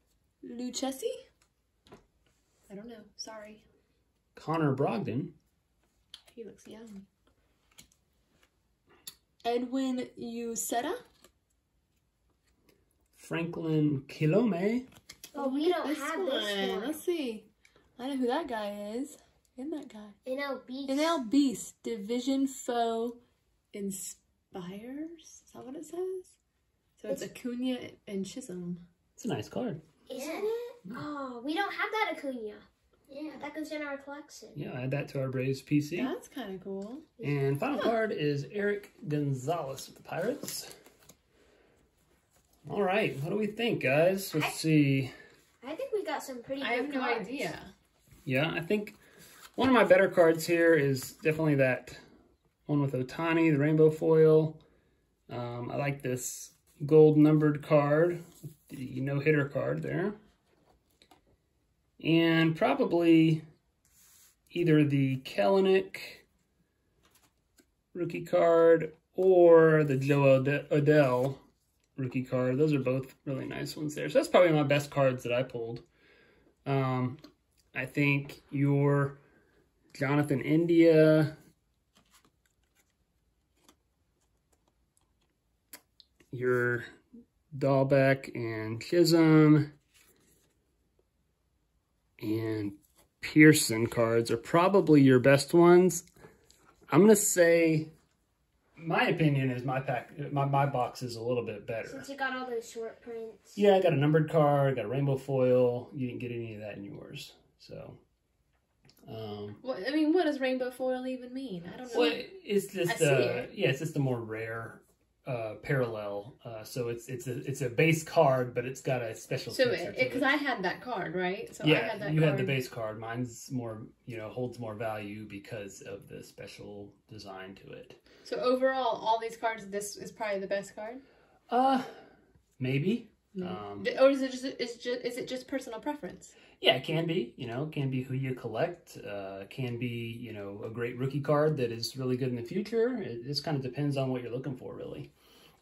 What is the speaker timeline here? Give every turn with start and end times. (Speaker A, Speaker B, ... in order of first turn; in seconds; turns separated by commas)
Speaker A: 0.4-1.2, Speaker A: 2.7-3.6, Speaker B: 4.3-5.3, Speaker A: 6.3-7.0, Speaker A: 9.4-11.0, Speaker B: 13.1-14.8, Speaker C: 15.3-17.0, Speaker A: 15.3-17.5, Speaker A: 18.0-20.1, Speaker C: 20.2-21.2, Speaker A: 20.9-23.2, Speaker A: 23.7-26.3, Speaker A: 27.0-28.8, Speaker B: 29.2-29.8, Speaker C: 30.1-34.6, Speaker A: 30.1-30.7, Speaker B: 34.5-36.1, Speaker A: 35.9-37.1, Speaker B: 37.2-40.7, Speaker B: 42.6-45.1, Speaker C: 44.3-44.6, Speaker C: 45.6-47.5, Speaker A: 46.6-47.7, Speaker B: 48.2-49.0, Speaker B: 49.5-52.0, Speaker B: 52.7-54.6, Speaker B: 55.3-60.2, Speaker B: 62.0-63.4, Speaker B: 64.5-66.2, Speaker B: 67.9-71.4, Speaker B: 72.0-75.8, Speaker B: 76.6-77.2, Speaker B: 77.7-79.2, Speaker B: 79.9-81.3, Speaker B: 86.3-86.9, Speaker B: 87.5-89.7, Speaker B: 92.2-96.0, Speaker B: 96.9-97.9, Speaker B: 98.8-102.1, Speaker C: 101.8-103.6, Speaker B: 103.5-108.0, Speaker B: 109.0-109.6, Speaker A: 109.6-112.2, Speaker B: 111.9-120.4, Speaker A: 112.8-113.5, Speaker A: 119.5-122.6, Speaker B: 121.6-128.0, Speaker A: 128.2-131.0, Speaker B: 131.5-131.9, Speaker B: 132.6-133.9, Speaker A: 133.4-136.3, Speaker B: 136.6-145.1